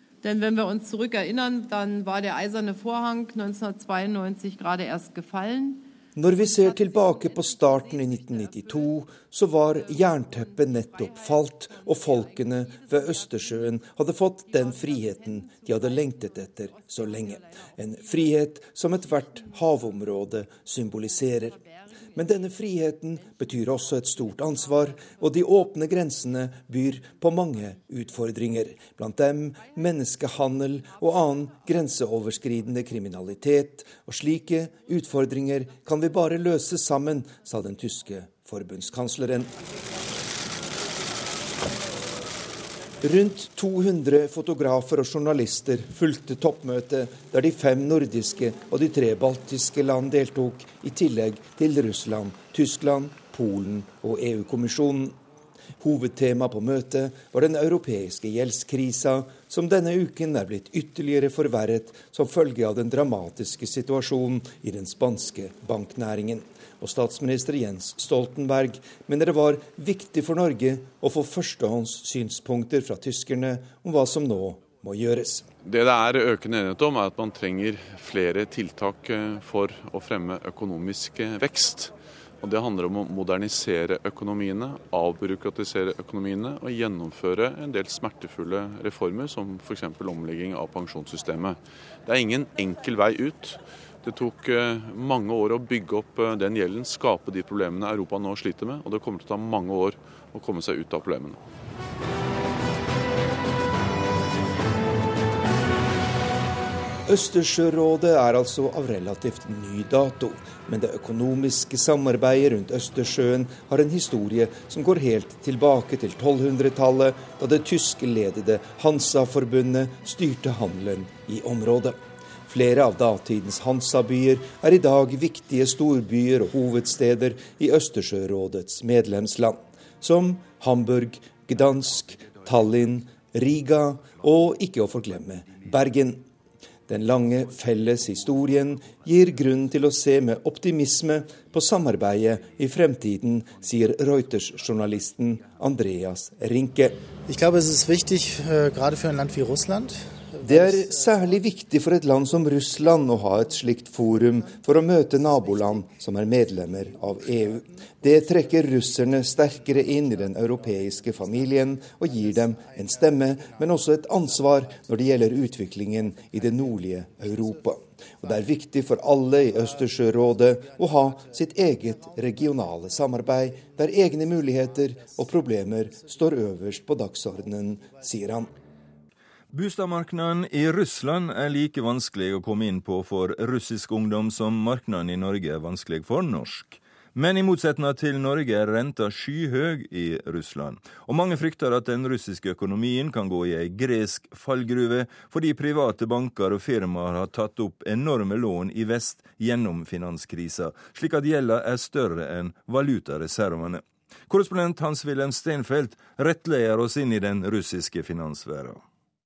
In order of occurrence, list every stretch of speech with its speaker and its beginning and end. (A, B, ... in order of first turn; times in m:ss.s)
0:00.2-0:09.0 A
0:06.2-0:21.6 B
0:09.7-0:13.8 A
0:14.6-0:16.1 A
0:16.7-0:18.3 A
0:19.3-0:19.7 A
0:21.0-0:21.9 A
0:22.1-0:39.6 B
0:23.2-0:25.4 A
0:43.0-0:55.2 B
0:55.8-1:15.5 B
1:15.6-1:41.4 C
1:47.1-2:16.3 B
2:16.9-2:27.0 B
2:27.3-2:31.0 D
2:30.4-2:58.5 B
2:59.5-3:28.8 E